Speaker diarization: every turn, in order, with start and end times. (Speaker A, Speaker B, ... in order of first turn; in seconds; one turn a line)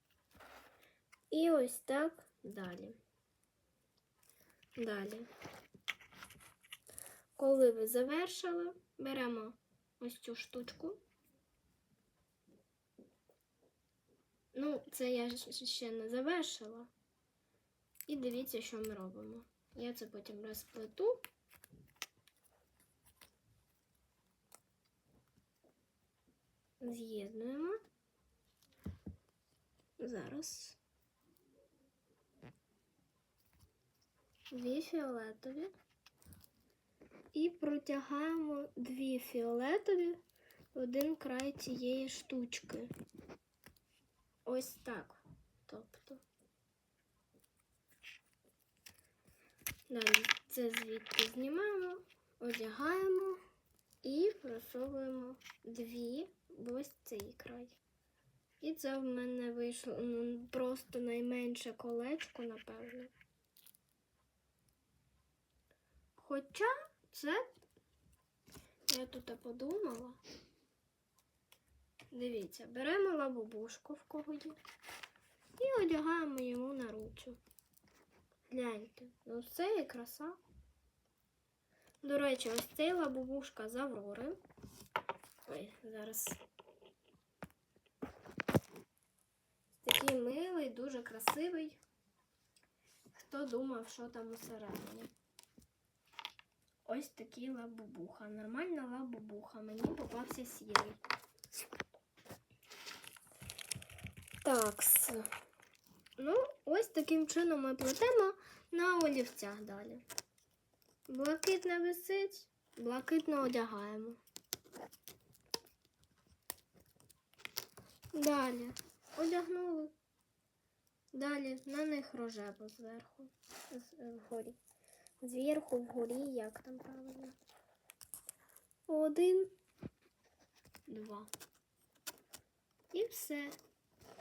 Speaker A: 1.3-3.0
Speaker A: 4.8-5.3
Speaker A: 7.3-11.0
Speaker A: 14.5-16.9
Speaker A: 18.1-21.3
Speaker A: 26.8-27.8
Speaker A: 30.0-30.8
Speaker A: 34.5-35.7
Speaker A: 37.3-40.2
Speaker A: 40.7-42.9
Speaker A: 44.5-46.2
Speaker A: 49.9-53.4
Speaker A: 54.0-57.8
Speaker A: 58.6-63.1
Speaker A: 66.2-67.5
Speaker A: 68.9-70.2
Speaker A: 72.1-74.6
Speaker A: 75.6-77.4
Speaker A: 78.5-80.4
Speaker A: 82.0-84.4
Speaker A: 85.5-86.4
Speaker A: 89.7-91.8
Speaker A: 93.1-95.1
Speaker A: 96.8-101.0
Speaker A: 104.4-105.3
Speaker A: 106.2-110.0
Speaker A: 111.1-114.2
Speaker A: 118.1-119.9
Speaker A: 121.1-124.6
Speaker A: 125.2-127.3
Speaker A: 128.9-129.5
Speaker A: 130.9-131.3
Speaker A: 132.9-133.6